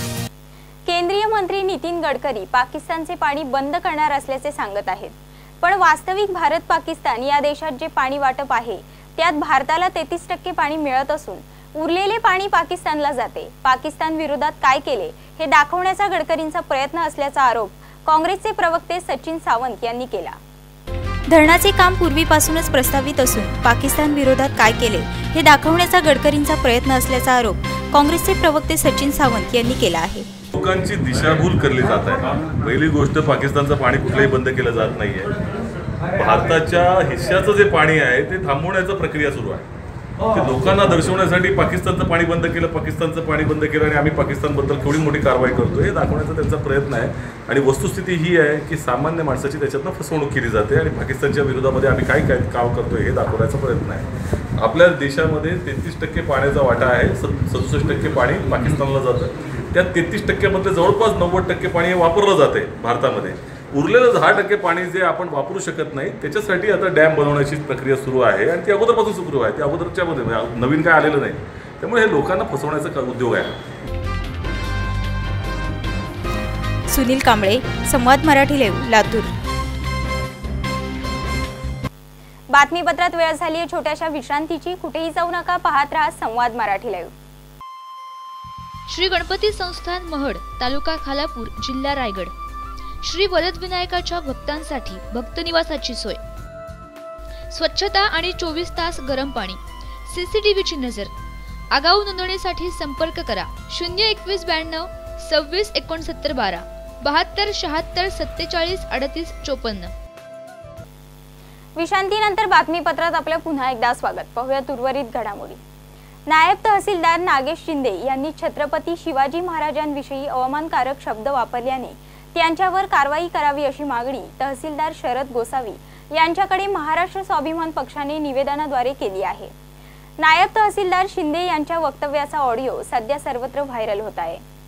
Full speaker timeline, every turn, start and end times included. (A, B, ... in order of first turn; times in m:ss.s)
0:00.8-0:20.4 A
0:21.3-0:30.3 B
0:30.5-0:35.3 C
0:36.1-0:39.6 C
0:40.3-1:13.5 C
1:16.9-1:19.3 B
1:22.5-1:27.1 A
1:28.9-1:32.3 D
1:33.0-1:36.2 D
1:37.5-1:41.1 D
1:41.7-1:49.9 D
1:51.8-1:55.6 A
1:56.3-2:09.5 A
2:10.2-2:14.4 A